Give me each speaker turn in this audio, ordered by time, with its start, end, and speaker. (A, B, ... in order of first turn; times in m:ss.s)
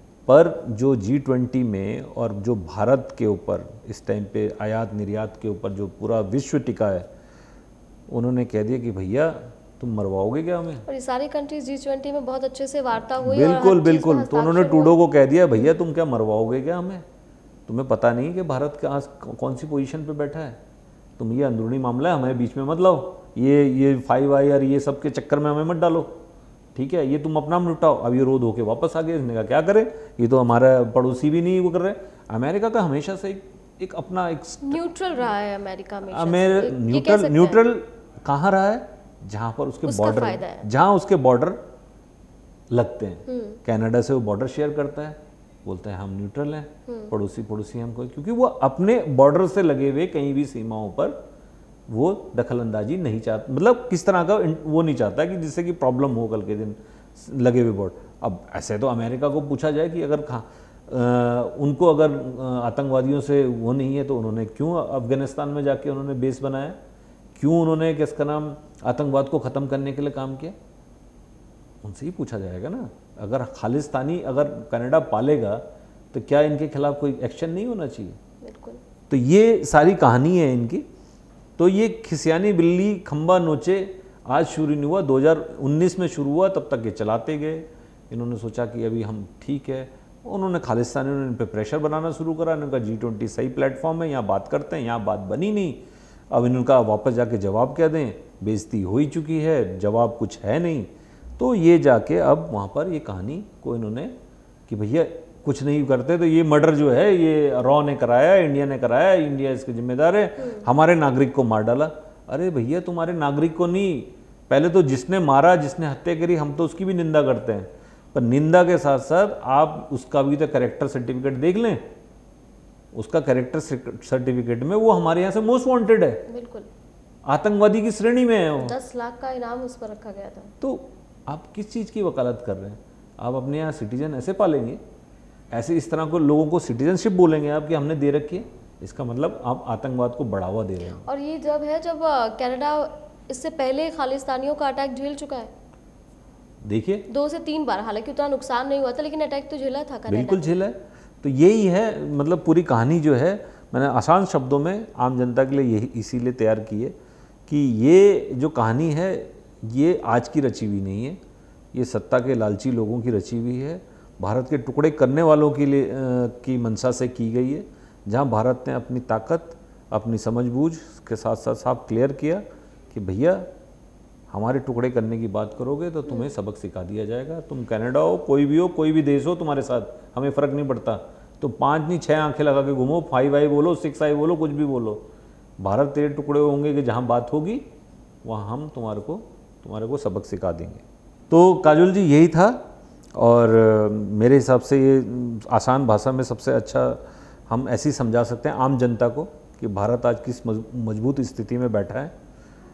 0:00.3-0:07.0 A
0:08.1-0:10.8 A
0:10.9-0:15.0 B
0:13.2-0:17.0 A
0:17.7-0:20.6 A
0:21.2-0:26.2 A
0:26.7-0:34.8 A
0:34.6-0:37.6 B
0:36.1-0:41.6 A
0:39.8-0:40.6 B
0:42.7-0:51.2 A
0:43.3-0:43.6 B
0:46.9-0:47.1 B
0:51.9-1:06.8 A
1:07.4-1:10.5 A
1:11.8-1:18.2 A
1:18.4-1:18.8 B
1:19.1-1:20.8 A
1:21.6-1:44.1 A
1:44.7-2:01.8 A
1:50.4-1:50.6 B
2:02.9-2:06.2 A
2:06.3-2:06.7 B
2:07.2-2:08.7 A
2:08.6-2:10.5 B
2:10.6-2:14.8 A
2:15.5-2:21.0 A
2:21.0-2:25.5 B
2:26.6-2:27.1 A
2:27.1-2:30.6 B
2:30.1-2:36.9 A
2:37.5-2:41.2 A
2:41.7-2:53.4 A
2:54.3-3:05.0 A
3:05.6-3:07.6 A
3:08.2-3:12.6 A
3:13.2-3:22.1 A